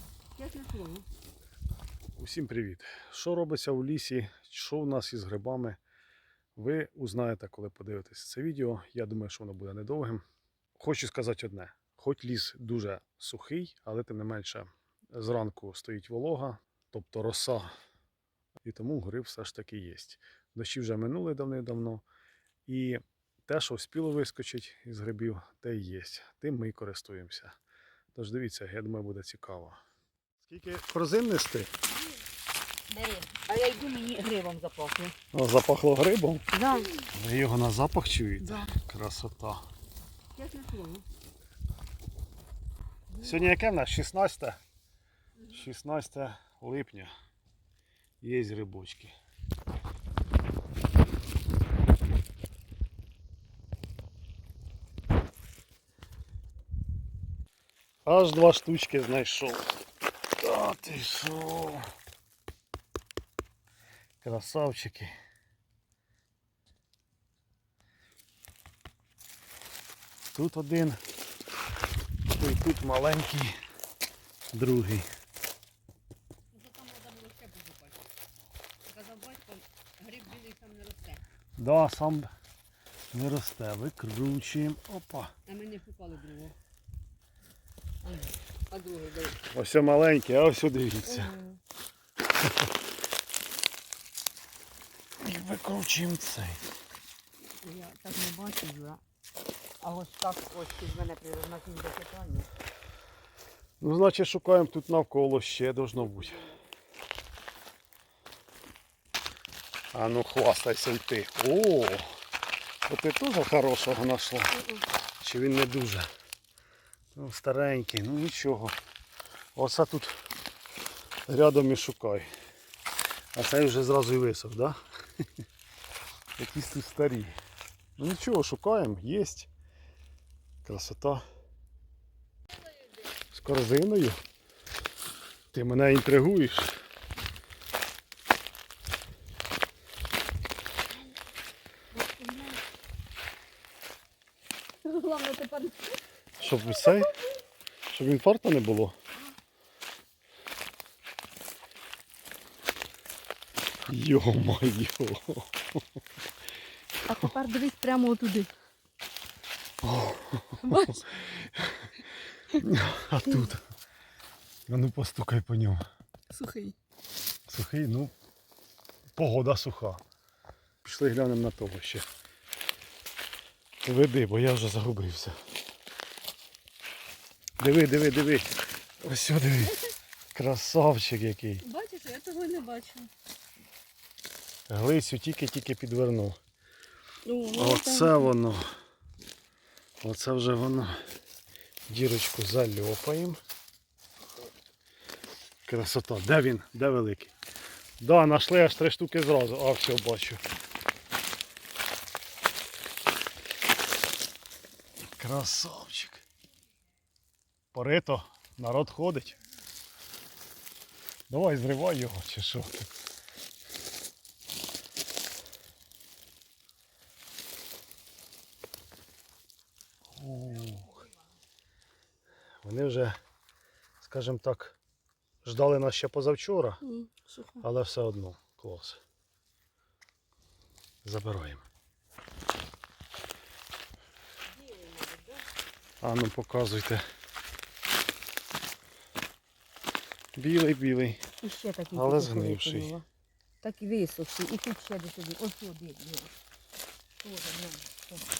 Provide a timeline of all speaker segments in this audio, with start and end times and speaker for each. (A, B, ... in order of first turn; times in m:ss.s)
0:00.4-0:01.0 A
0:02.2-0:05.8 B
0:06.6-0:10.2 B
0:10.8-0:17.7 B
0:18.6-0:22.0 B
0:22.7-0:27.6 B
0:28.1-0:29.8 B
0:30.4-0:31.7 B
0:32.9-0:35.2 A
0:35.3-0:36.5 B
0:36.5-0:37.0 A
0:37.0-0:39.6 B
0:38.4-0:38.7 A
0:40.4-0:41.0 A
0:43.1-0:43.4 A
0:43.2-0:44.6 B
0:45.5-0:47.1 B
0:48.2-0:49.1 B
0:58.0-0:59.7 B
1:00.4-1:01.8 B
1:04.2-1:05.1 B
1:10.3-1:11.0 B
1:12.3-1:13.5 B
1:14.5-1:15.1 B
1:16.5-1:18.0 A
1:18.9-1:21.2 A
1:21.6-1:22.3 B
1:23.1-1:25.3 B
1:25.5-1:26.6 A
1:28.0-1:29.4 A
1:29.5-1:31.3 B
1:31.1-1:31.6 A
1:35.2-1:36.6 B
1:37.6-1:39.0 A
1:39.8-1:42.5 A
1:43.8-1:46.5 B
1:46.2-1:46.6 A
1:49.9-1:52.1 B
1:52.9-1:54.6 B
1:55.2-1:56.1 B
1:57.1-1:58.8 B
1:59.6-2:00.1 B
2:01.2-2:02.3 B
2:03.3-2:04.8 B
2:06.4-2:07.3 B
2:08.0-2:09.5 B
2:10.6-2:11.2 B
2:13.3-2:14.2 B
2:15.5-2:16.7 B
2:22.0-2:22.6 A
2:24.8-2:26.0 A
2:26.4-2:27.1 B
2:27.9-2:29.0 B
2:33.9-2:35.6 B
2:37.1-2:38.5 A
2:39.8-2:42.0 B
2:40.7-2:41.0 A
2:42.5-2:43.6 B
2:44.7-2:45.8 B
2:47.5-2:48.1 B
2:49.2-2:50.0 B
2:50.8-2:52.1 B
2:53.8-2:55.4 B
2:57.6-2:58.5 B
2:59.0-2:59.8 B
3:00.3-3:01.6 B
3:01.6-3:03.1 A
3:04.7-3:06.4 B
3:07.2-3:08.3 A
3:07.5-3:08.7 B
3:10.0-3:11.0 B
3:11.9-3:13.4 B
3:15.6-3:17.3 B
3:18.0-3:20.4 B
3:25.2-3:26.2 B
3:27.7-3:29.4 B
3:31.3-3:32.7 B
3:40.2-3:41.1 B
3:42.6-3:43.2 B
3:44.0-3:44.8 B
3:45.4-3:46.8 B
3:46.9-3:47.6 A
3:47.6-3:49.0 B
3:51.0-3:51.6 B
3:54.7-3:55.3 A
3:56.0-3:57.0 B
4:00.4-4:01.2 B
4:01.4-4:03.0 A
4:01.9-4:03.0 B
4:03.6-4:06.3 A
4:07.2-4:08.2 A